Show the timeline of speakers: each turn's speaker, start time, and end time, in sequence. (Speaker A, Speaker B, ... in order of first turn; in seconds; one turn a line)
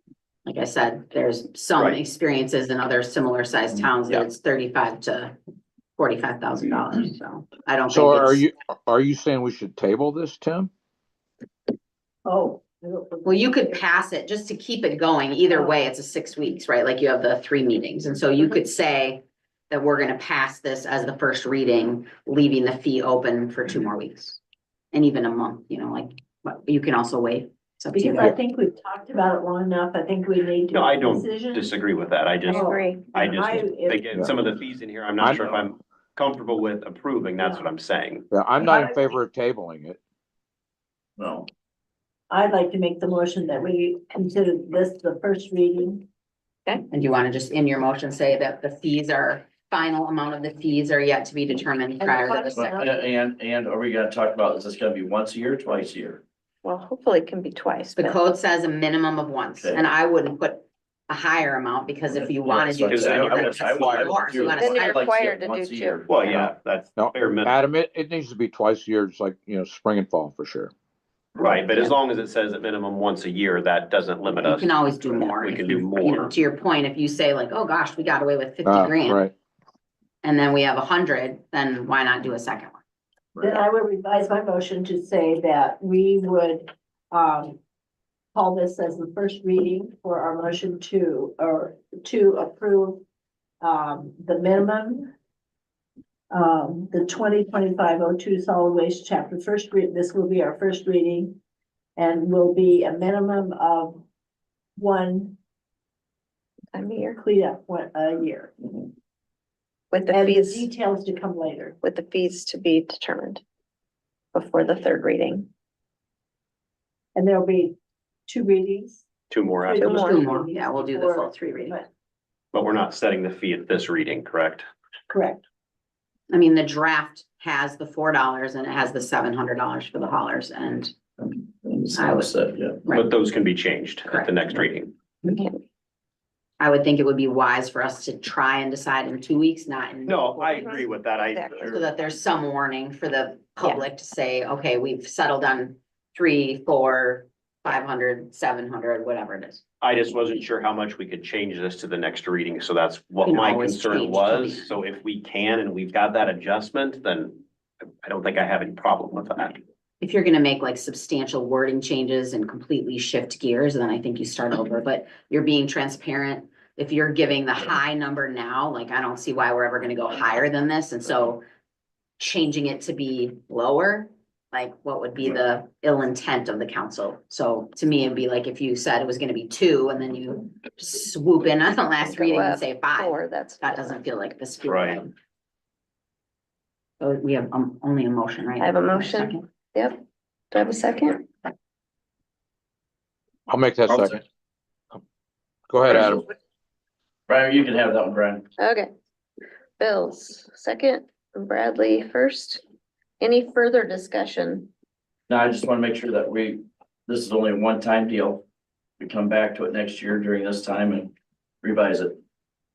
Speaker A: 0.5-5.3
Speaker A: 6.0-8.4
Speaker B: 7.9-10.7
Speaker C: 12.2-13.8
Speaker A: 13.2-24.4
Speaker A: 24.9-28.4
Speaker C: 27.9-31.7
Speaker D: 30.7-38.3
Speaker C: 32.5-34.4
Speaker E: 32.5-33.1
Speaker B: 35.2-35.7
Speaker C: 37.4-37.8
Speaker B: 38.3-40.0
Speaker F: 41.2-41.5
Speaker C: 42.3-46.1
Speaker A: 46.9-52.8
Speaker C: 52.0-53.0
Speaker F: 52.5-56.2
Speaker E: 56.6-58.2
Speaker A: 57.9-65.0
Speaker F: 59.6-59.9
Speaker F: 62.1-66.5
Speaker D: 62.9-64.0
Speaker B: 63.8-64.1
Speaker E: 64.5-66.0
Speaker D: 66.1-67.6
Speaker B: 67.0-70.7
Speaker D: 71.4-76.3
Speaker A: 74.4-79.2
Speaker B: 78.7-79.3
Speaker A: 80.2-82.8
Speaker C: 83.4-87.6
Speaker C: 88.3-93.0
Speaker C: 93.6-95.1
Speaker C: 96.3-101.4
Speaker C: 102.0-104.0
Speaker C: 104.8-105.4
Speaker E: 106.7-107.2
Speaker C: 107.2-108.9
Speaker E: 109.9-110.7
Speaker C: 110.1-111.8
Speaker E: 111.8-113.4
Speaker E: 114.3-115.5
Speaker C: 117.2-119.1
Speaker D: 119.3-120.1
Speaker C: 119.6-121.9
Speaker E: 119.8-120.2
Speaker A: 120.0-121.8
Speaker D: 122.5-124.7
Speaker C: 125.1-125.4
Speaker A: 126.3-130.9
Speaker F: 131.6-132.8
Speaker A: 131.9-132.3
Speaker D: 132.9-134.9
Speaker E: 135.3-135.6
Speaker A: 136.6-140.8
Speaker D: 140.1-141.9
Speaker E: 140.5-141.7
Speaker A: 141.7-149.6
Speaker D: 149.8-157.4
Speaker A: 153.2-154.7
Speaker D: 158.0-159.6
Speaker A: 160.0-171.4
Speaker A: 172.2-185.1
Speaker E: 182.1-184.0
Speaker D: 184.7-185.0
Speaker A: 187.0-189.4
Speaker E: 188.6-190.0
Speaker E: 190.5-191.3
Speaker B: 193.5-194.2
Speaker B: 195.7-196.2
Speaker F: 195.9-196.2
Speaker F: 197.3-198.5
Speaker E: 198.6-198.9
Speaker E: 199.8-202.6
Speaker E: 203.2-204.7
Speaker F: 205.3-208.4
Speaker F: 209.0-212.2